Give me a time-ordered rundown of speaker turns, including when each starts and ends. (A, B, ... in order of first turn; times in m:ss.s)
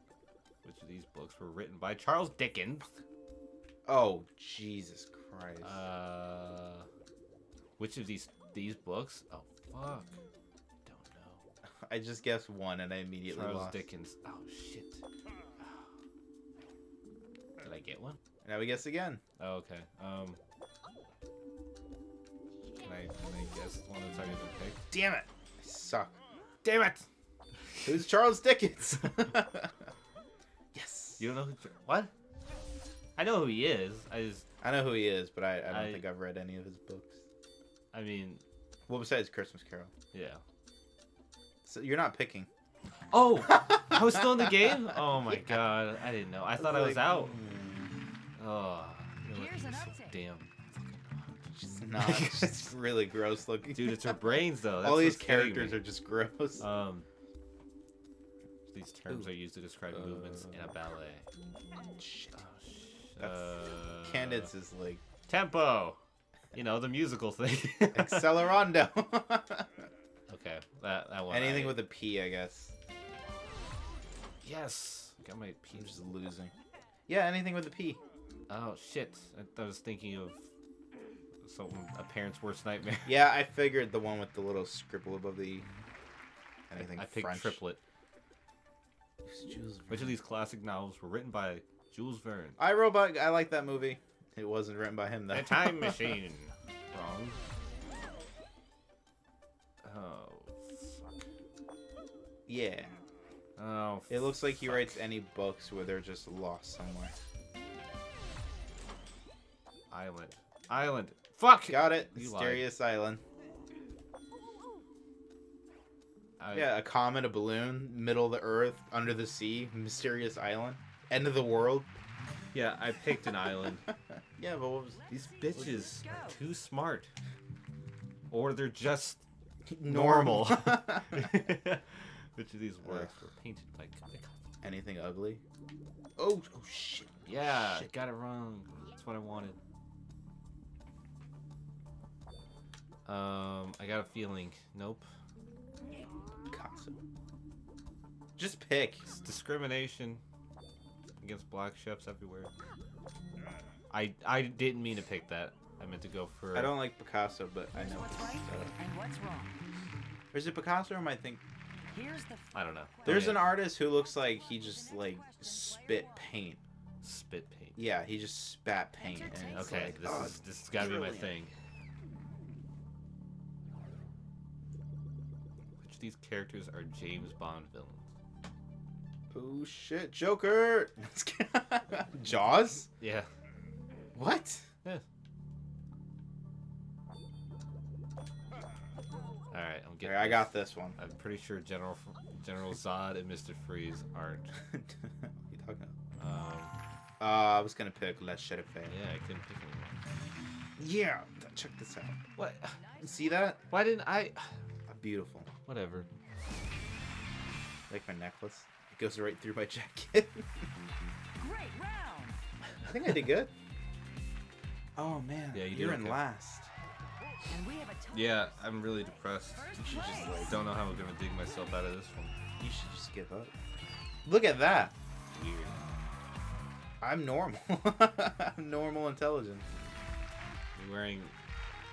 0:00.6-0:03.0 A
0:03.9-0:05.8 B
0:05.6-0:06.9 A
0:07.8-0:10.2 A
0:10.8-0:11.5 A
0:11.8-0:13.8 B
0:13.3-0:15.0 A
0:15.6-0:15.9 A
0:17.6-0:18.2 A
0:18.4-0:19.2 B
0:19.4-0:20.4 A
0:22.8-0:24.9 A
0:24.9-0:26.2 B
0:26.6-0:27.1 A
0:27.8-0:29.9 B
0:30.7-0:31.3 B
0:31.2-0:32.1 A
0:33.2-0:34.5 A
0:34.6-0:37.2 B
0:35.7-0:36.0 A
0:37.9-0:38.4 A
0:38.9-0:39.9 B
0:40.1-0:40.4 A
0:41.6-0:42.5 B
0:43.1-0:47.4 A
0:43.5-0:45.6 B
0:46.6-0:47.9 B
0:48.4-0:51.4 A
0:49.3-0:50.2 C
0:51.5-0:54.2 B
0:52.0-0:52.7 A
0:53.7-0:55.8 A
0:54.8-0:56.6 B
0:56.6-0:57.1 A
0:58.7-1:01.3 A
1:00.1-1:00.5 B
1:02.0-1:02.4 B
1:02.3-1:04.5 A
1:03.2-1:05.0 B
1:05.3-1:06.0 A
1:06.5-1:08.3 A
1:07.9-1:09.9 B
1:10.3-1:11.8 A
1:11.3-1:12.7 B
1:14.4-1:16.0 A
1:15.7-1:16.5 B
1:17.1-1:18.0 B
1:18.5-1:20.5 A
1:21.4-1:23.2 A
1:23.0-1:25.7 B
1:26.7-1:27.6 B
1:26.8-1:27.8 A
1:29.2-1:30.2 B
1:29.9-1:32.6 A
1:32.6-1:36.1 B
1:35.3-1:37.4 A
1:39.8-1:41.2 A
1:42.5-1:43.0 B
1:43.6-1:45.0 A
1:44.1-1:47.1 B
1:49.9-1:52.7 A
1:51.7-1:53.2 B
1:56.4-1:56.8 A
1:56.5-2:01.9 B
2:02.5-2:03.8 A
2:04.4-2:05.0 B
2:04.9-2:06.4 C
2:05.1-2:07.1 A
2:08.3-2:09.2 A
2:09.7-2:11.3 B
2:09.8-2:14.3 A
2:12.8-2:13.1 B
2:14.6-2:15.4 B
2:16.2-2:17.9 B
2:17.3-2:19.6 A
2:23.1-2:25.1 A
2:26.5-2:27.0 B
2:28.4-2:29.1 B
2:29.1-2:30.2 A
2:31.2-2:32.5 A
2:33.9-2:36.8 A
2:36.5-2:38.7 B
2:37.7-2:39.6 C
2:40.3-2:41.4 B
2:41.9-2:43.3 C
2:42.5-2:43.6 A
2:43.0-2:46.6 B
2:44.4-2:46.2 C
2:47.0-2:47.9 A
2:47.8-2:51.4 B
2:49.0-2:50.1 C
2:49.5-2:51.5 A
2:55.8-2:58.1 A
2:59.3-3:02.9 B
3:03.0-3:03.3 A
3:04.2-3:04.7 B
3:09.5-3:14.5 A
3:10.0-3:11.0 B
3:14.6-3:16.0 B
3:16.2-3:16.8 A
3:17.2-3:19.0 B
3:18.9-3:20.0 A
3:20.8-3:22.2 B
3:22.4-3:22.8 A
3:22.7-3:23.6 C
3:23.0-3:23.6 B
3:23.7-3:24.6 A
3:24.9-3:25.5 B
3:25.6-3:26.1 A
3:27.9-3:30.5 B
3:31.4-3:32.4 C
3:32.8-3:33.5 B
3:35.0-3:36.7 B
3:35.5-3:36.2 A
3:37.5-3:40.6 C
3:38.1-3:39.7 A
3:39.8-3:40.6 B
3:40.3-3:42.4 A
3:42.6-3:43.5 B
3:44.2-3:44.9 B
3:45.3-3:45.8 A
3:47.0-3:49.6 B
3:50.8-3:51.3 A